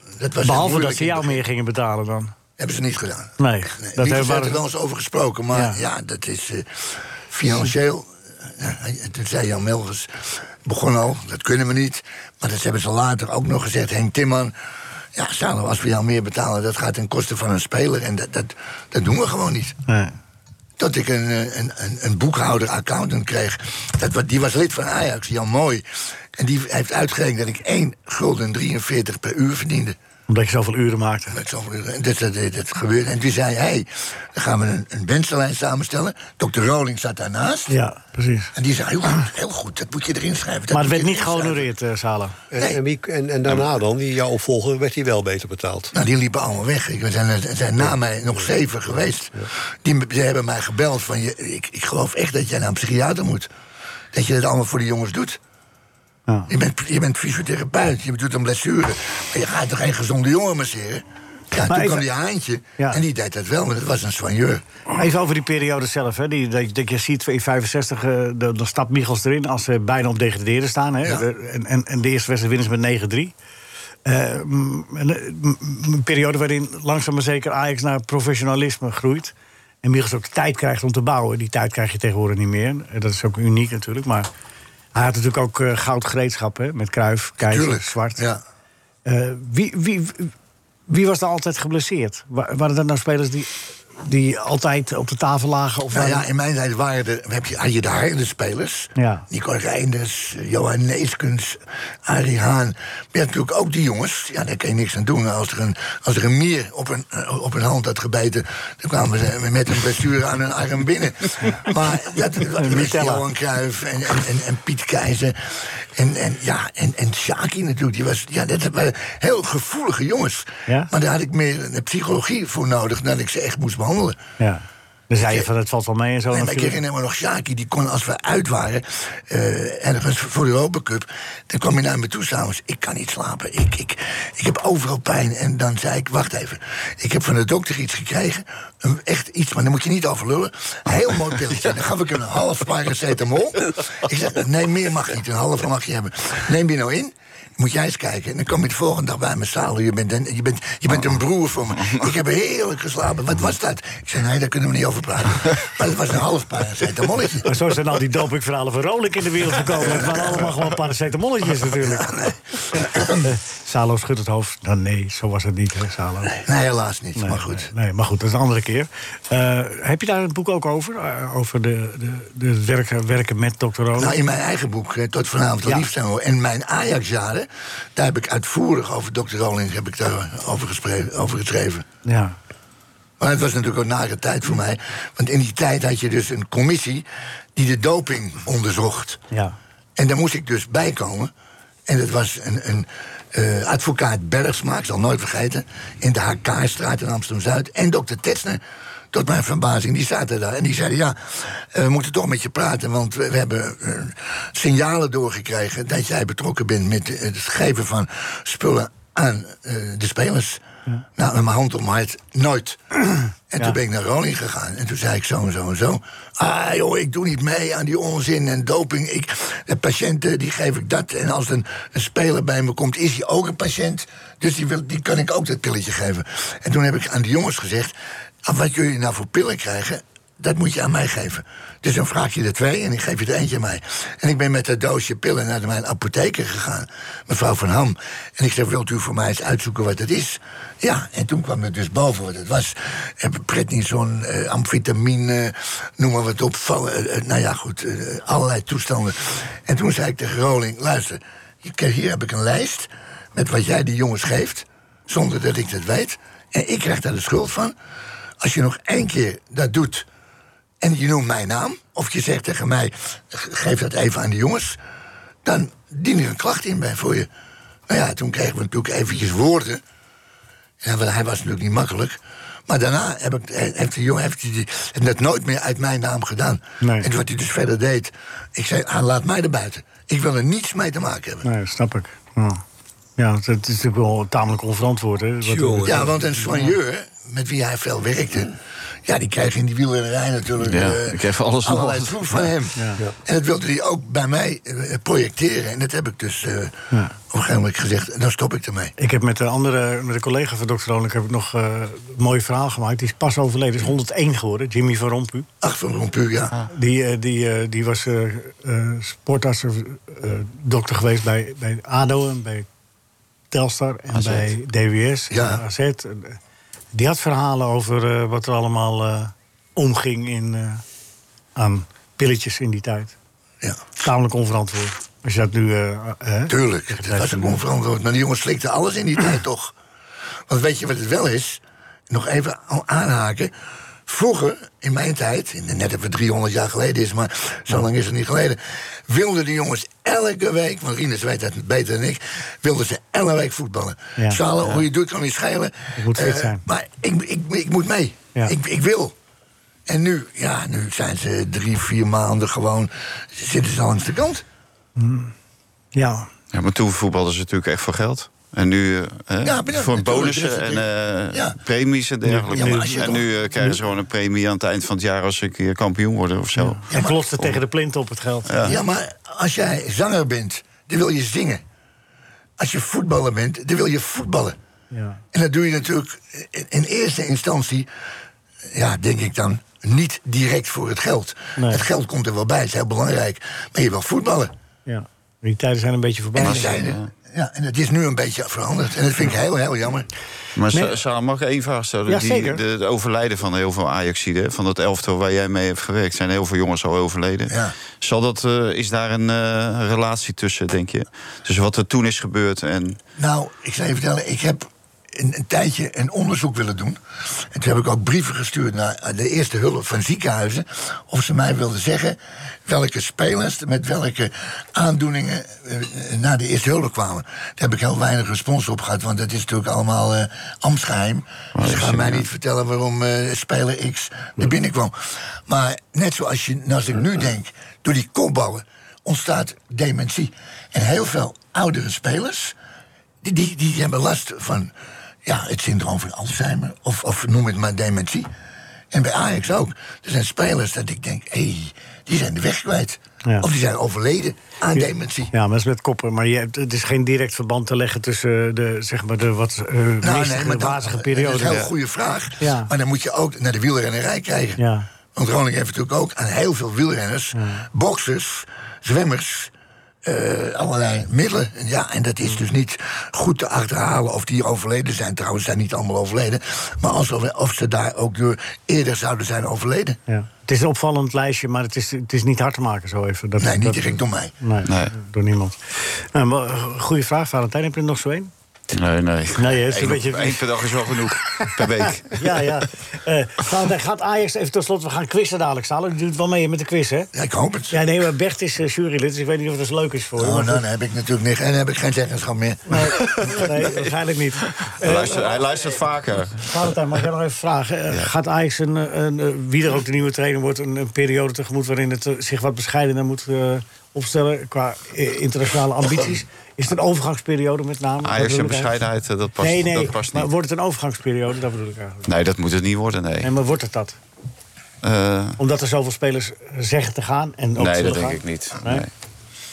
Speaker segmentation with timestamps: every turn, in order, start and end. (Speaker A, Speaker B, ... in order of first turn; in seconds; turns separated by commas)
Speaker A: 0.2-1.4, Speaker B: 0.4-2.3, Speaker A: 2.6-10.1, Speaker B: 3.4-4.6, Speaker B: 5.5-5.8, Speaker A: 10.6-14.5, Speaker A: 15.2-19.8, Speaker B: 19.9-20.1, Speaker A: 20.8-30.0, Speaker B: 30.3-31.4, Speaker A: 31.3-37.8, Speaker B: 37.7-38.5, Speaker A: 38.5-41.7, Speaker B: 40.7-42.4, Speaker C: 42.5-46.0, Speaker A: 42.5-42.8, Speaker A: 45.9-53.5, Speaker A: 54.1-55.4, Speaker A: 56.5-64.6, Speaker B: 61.6-62.1, Speaker B: 64.9-73.3, Speaker B: 74.1-84.3, Speaker B: 85.0-88.2, Speaker A: 87.4-88.4, Speaker B: 89.1-90.3, Speaker B: 90.9-93.5, Speaker B: 94.0-96.3, Speaker A: 95.9-124.2, Speaker B: 99.0-99.3, Speaker B: 112.5-113.3, Speaker B: 120.7-120.9, Speaker B: 124.4-126.8, Speaker A: 126.3-157.5, Speaker D: 151.8-152.1, Speaker B: 157.5-162.2, Speaker A: 162.0-163.1, Speaker B: 163.2-166.4, Speaker A: 166.3-167.7, Speaker B: 167.2-174.2, Speaker A: 174.0-181.8, Speaker B: 182.1-182.4, Speaker A: 183.2-187.1, Speaker A: 187.6-189.2, Speaker B: 189.3-189.6, Speaker A: 190.0-191.3, Speaker A: 191.9-198.6, Speaker A: 199.1-210.6, Speaker A: 211.2-212.8, Speaker A: 213.5-257.7, Speaker A: 258.4-260.1, Speaker A: 260.8-264.8, Speaker A: 265.4-267.3, Speaker A: 267.9-269.8, Speaker A: 270.8-281.5, Speaker B: 276.8-277.1, Speaker B: 281.4-282.6, Speaker B: 283.2-286.7, Speaker C: 285.4-286.2, Speaker A: 285.9-288.6, Speaker A: 289.1-298.9, Speaker D: 290.6-292.5, Speaker B: 299.0-305.5, Speaker A: 305.6-306.6, Speaker B: 306.7-312.7, Speaker B: 313.5-316.4, Speaker D: 314.1-314.5, Speaker A: 315.3-315.6, Speaker B: 316.9-320.8, Speaker B: 321.6-323.1, Speaker A: 323.6-323.9, Speaker B: 324.0-327.6, Speaker A: 326.5-329.7, Speaker A: 330.5-333.5, Speaker A: 334.1-349.1, Speaker B: 344.2-344.8, Speaker B: 346.0-346.6, Speaker A: 349.9-354.4, Speaker B: 355.0-355.3, Speaker B: 355.9-356.3, Speaker D: 356.5-367.6, Speaker A: 359.4-361.6, Speaker B: 362.3-363.8, Speaker A: 362.5-363.3, Speaker B: 366.6-368.8, Speaker D: 368.5-368.8, Speaker A: 368.7-371.6, Speaker A: 372.6-374.6, Speaker B: 374.9-375.2, Speaker A: 375.3-377.9, Speaker A: 378.7-384.5, Speaker B: 381.6-381.9, Speaker B: 384.9-387.0, Speaker D: 386.4-387.1, Speaker A: 386.4-390.1, Speaker D: 390.6-403.0, Speaker B: 392.1-392.6, Speaker A: 397.5-397.8, Speaker A: 403.2-407.0, Speaker A: 407.5-432.6, Speaker D: 421.6-422.3, Speaker A: 433.2-434.7, Speaker A: 435.2-438.3, Speaker A: 438.9-445.3, Speaker B: 444.7-451.7, Speaker A: 450.0-454.6, Speaker D: 451.4-451.7, Speaker B: 452.4-452.7, Speaker B: 454.6-454.9, Speaker A: 455.1-459.5, Speaker B: 457.3-457.6, Speaker A: 460.0-470.0, Speaker B: 470.1-478.3, Speaker A: 473.4-474.3, Speaker D: 474.6-474.9, Speaker D: 478.7-482.5, Speaker B: 479.4-487.1, Speaker A: 487.1-487.8, Speaker B: 487.7-490.6, Speaker A: 490.2-492.8, Speaker B: 492.7-495.4, Speaker D: 492.9-493.9, Speaker D: 494.5-496.5, Speaker B: 496.4-508.8, Speaker D: 508.0-510.3, Speaker B: 509.4-512.1, Speaker D: 512.1-513.3, Speaker B: 513.2-514.0, Speaker D: 514.8-515.4, Speaker B: 515.4-518.9, Speaker D: 517.6-518.9